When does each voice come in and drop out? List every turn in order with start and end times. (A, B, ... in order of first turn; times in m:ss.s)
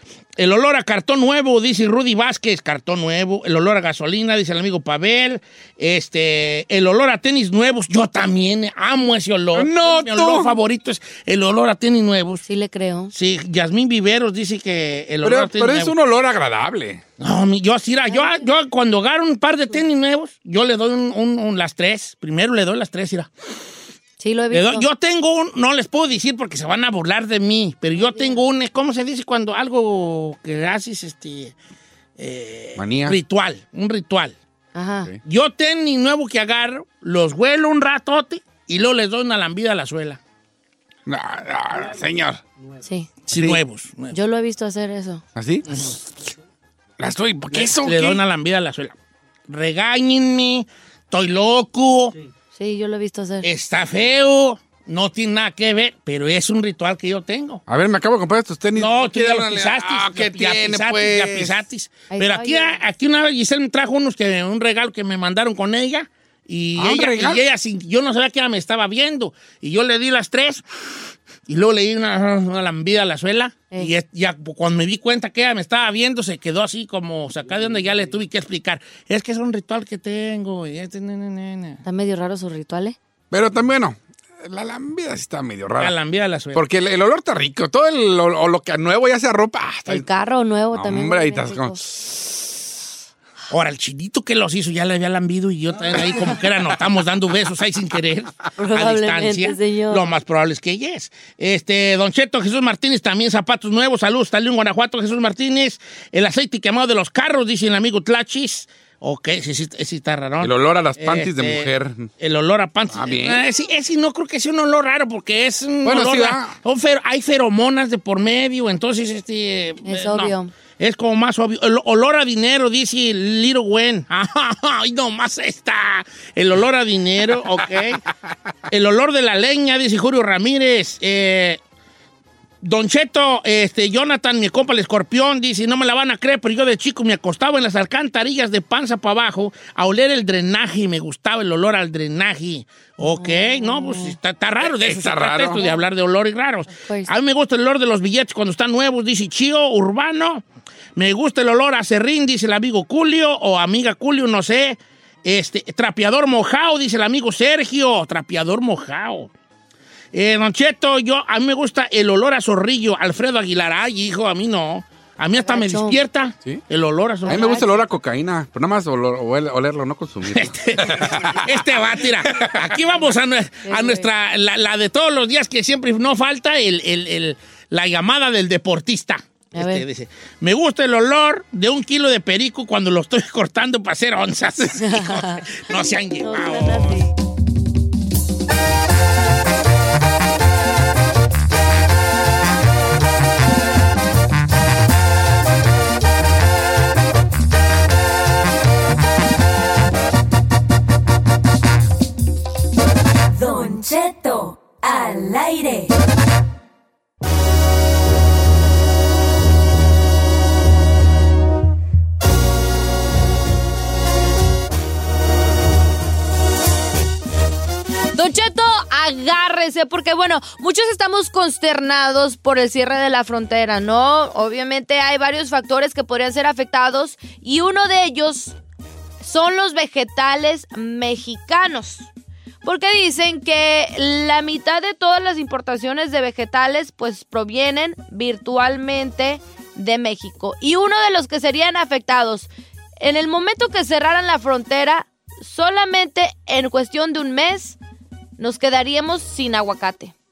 0:00.4-0:12.4 A
0:09.6-0:10.6 B
0:12.4-0:13.1 C
0:13.1-0:15.9 A
0:15.2-0:17.0 B
0:17.2-0:23.3 A
0:18.1-0:18.4 C
0:24.2-0:24.9 C
0:24.5-0:31.6 A
0:28.0-0:28.4 C
0:32.2-0:34.4 A
0:32.8-0:33.2 B
0:34.7-0:35.1 C
0:35.2-0:40.2 A
0:41.1-0:42.4 B
0:42.8-0:43.1 C
0:43.3-0:44.1 A
0:43.3-0:43.6 B
0:44.1-0:45.2 C
0:45.4-0:45.7 B
0:45.7-0:46.0 A
0:47.0-0:48.2 B
0:47.5-0:49.0 A
0:49.5-0:52.2 A
0:52.6-0:53.5 C
0:53.4-0:57.6 A
0:57.7-1:01.6 B
0:58.8-1:10.6 A
1:02.1-1:02.8 C
1:06.8-1:07.4 B
1:11.5-1:21.8 A
1:21.8-1:23.0 C
1:23.3-1:25.9 B
1:25.8-1:26.6 A
1:26.5-1:30.1 B
1:29.9-1:31.8 C
1:30.7-1:32.4 B
1:33.5-2:08.0 A
1:38.6-1:40.1 C
1:50.4-1:52.1 B
1:52.9-1:53.4 B
1:55.8-1:56.6 B
1:59.8-2:00.5 C
2:08.7-2:11.6 A
2:12.6-2:30.4 A
2:23.0-2:24.2 C
2:24.6-2:25.6 B
2:26.8-2:27.1 C
2:31.0-2:39.3 A
2:40.1-2:47.6 A
2:45.4-2:46.0 C
2:47.3-2:47.8 C
2:47.3-2:52.7 B
2:50.3-3:07.0 A
2:53.6-2:54.1 C
2:59.5-2:59.8 C
3:04.9-3:05.4 C
3:06.2-3:07.1 C
3:23.3-3:25.9 D
3:38.2-3:48.6 E
3:49.2-3:52.1 E
3:52.6-4:02.5 E
4:03.0-4:07.8 E
4:08.4-4:10.1 E